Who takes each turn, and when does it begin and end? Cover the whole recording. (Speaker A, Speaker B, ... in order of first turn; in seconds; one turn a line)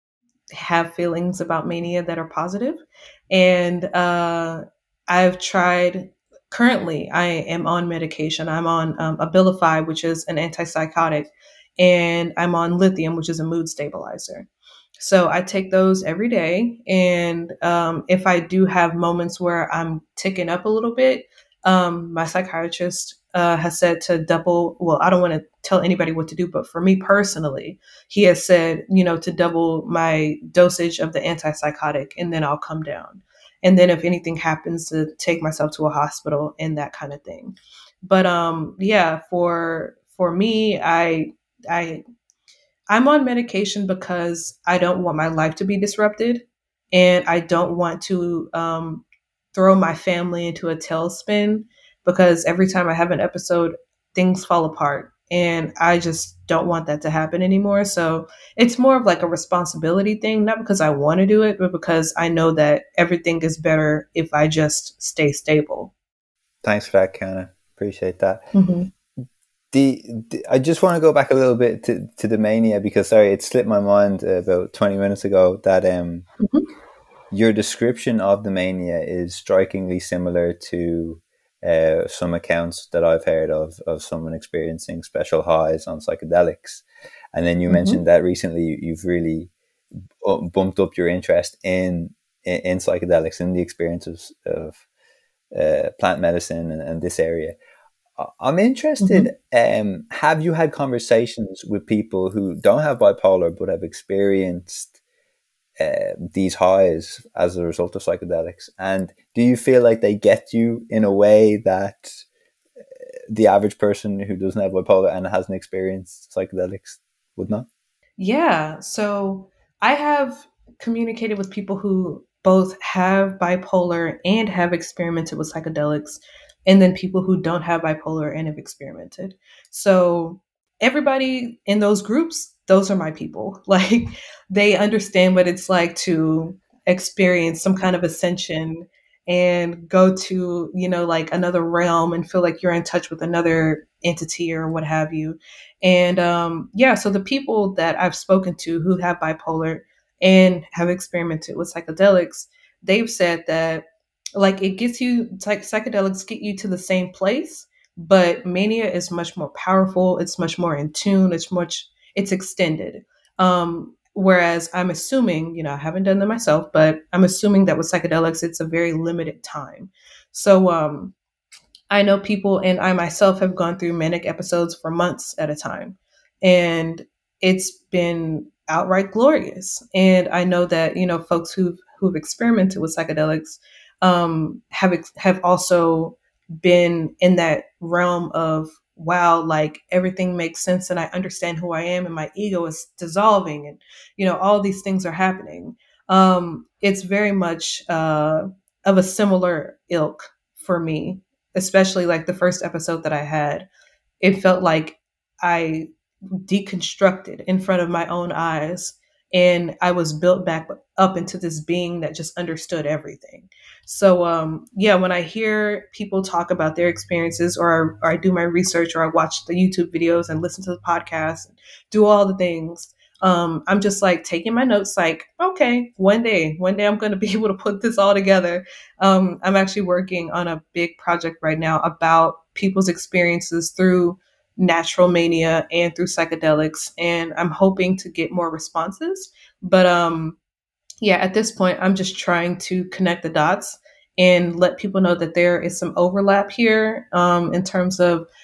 Speaker A: 0.5-42.0
Speaker A: 42.9-65.9
Speaker B: 66.6-68.4
Speaker A: 68.5-68.9
Speaker B: 69.7-76.3
Speaker A: 76.4-76.7
Speaker B: 77.3-89.5
Speaker A: 87.7-88.0
Speaker B: 90.2-94.8
Speaker B: 95.5-97.6
Speaker B: 98.2-104.9
Speaker A: 99.0-99.3
Speaker B: 105.8-112.2
Speaker B: 113.3-117.7
Speaker A: 118.2-171.1
Speaker A: 171.9-203.7
Speaker A: 204.2-205.9
Speaker A: 206.4-240.4
Speaker A: 241.0-248.3